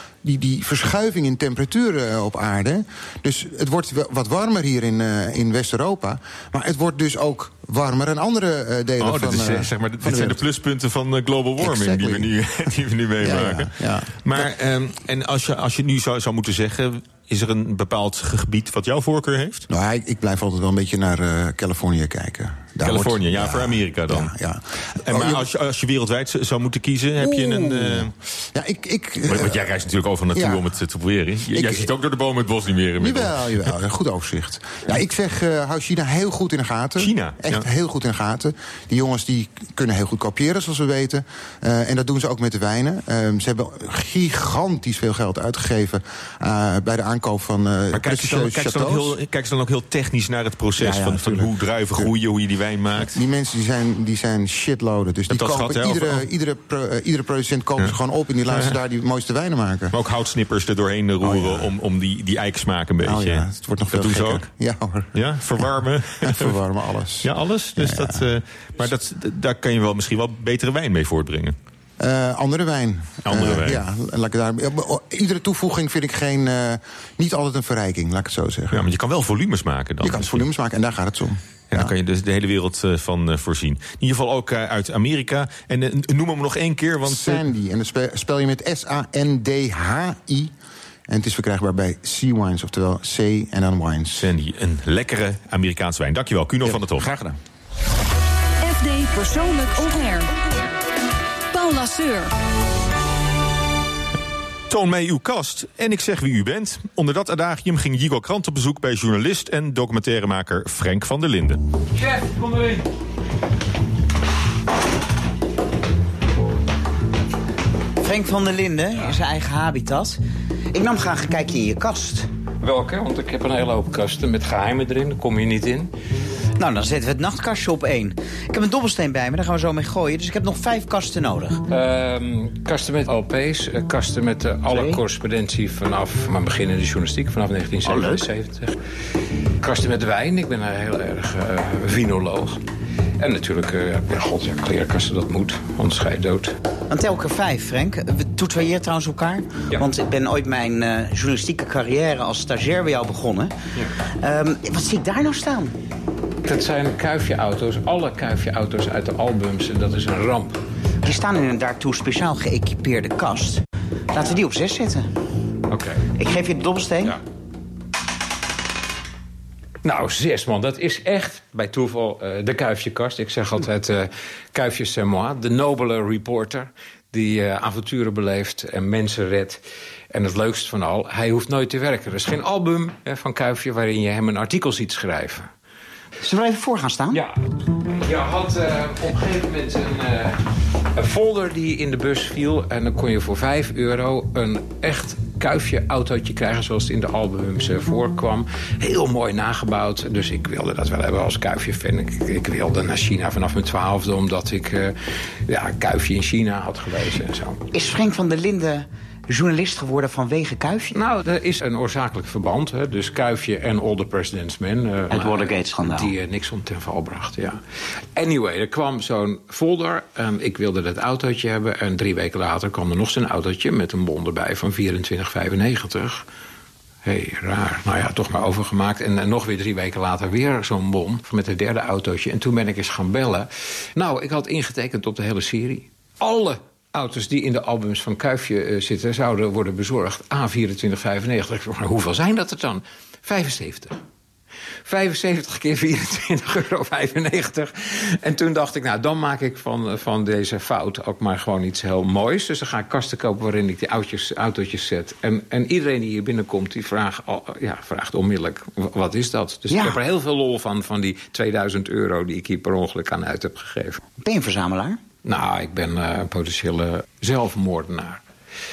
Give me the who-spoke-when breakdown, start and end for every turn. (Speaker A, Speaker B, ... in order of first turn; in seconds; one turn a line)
Speaker A: 0.2-10.4
Speaker B: 9.0-19.7
Speaker A: 11.6-12.3
Speaker A: 13.2-14.2
Speaker A: 19.7-25.4
Speaker B: 22.8-24.3
Speaker B: 25.0-28.1
Speaker A: 27.2-29.7
Speaker B: 29.3-33.7
Speaker A: 30.3-30.6
Speaker A: 31.5-31.9
Speaker A: 33.0-49.1
Speaker B: 37.0-37.6
Speaker B: 47.9-53.1
Speaker A: 50.8-52.1
Speaker A: 53.0-59.9
Speaker B: 55.3-56.2
Speaker B: 59.9-64.5
Speaker A: 61.2-61.7
Speaker A: 63.0-65.1
Speaker B: 65.1-66.6
Speaker A: 66.2-68.2
Speaker B: 67.2-71.5
Speaker A: 72.0-78.8
Speaker B: 73.2-73.8
Speaker B: 78.7-80.4
Speaker A: 80.0-81.9
Speaker B: 81.7-87.4
Speaker A: 87.0-90.5
Speaker A: 91.1-94.3
Speaker B: 94.2-97.2
Speaker A: 96.6-97.4
Speaker C: 98.6-100.3
Speaker C: 101.5-102.3
Speaker B: 104.7-111.6
Speaker D: 112.0-112.8
Speaker E: 118.0-120.2
Speaker E: 120.7-122.3
Speaker D: 122.6-125.9
Speaker E: 126.6-131.6
Speaker D: 131.7-138.7
Speaker E: 134.7-135.0
Speaker E: 137.8-138.3
Speaker D: 139.6-142.6
Speaker D: 143.2-146.5
Speaker E: 146.9-153.5
Speaker E: 154.2-155.7
Speaker D: 156.4-160.6
Speaker E: 161.0-165.1
Speaker D: 165.7-166.1
Speaker E: 166.1-167.1
Speaker D: 169.8-185.5
Speaker E: 186.2-187.2
Speaker D: 187.1-187.4
Speaker D: 187.9-204.9
Speaker D: 205.5-207.6
Speaker E: 207.7-211.0
Speaker D: 210.9-217.6
Speaker E: 215.1-216.1
Speaker D: 218.1-226.2
Speaker D: 227.0-244.0
Speaker D: 244.8-264.0
Speaker E: 259.7-260.0
Speaker E: 264.2-265.0
Speaker D: 265.2-268.2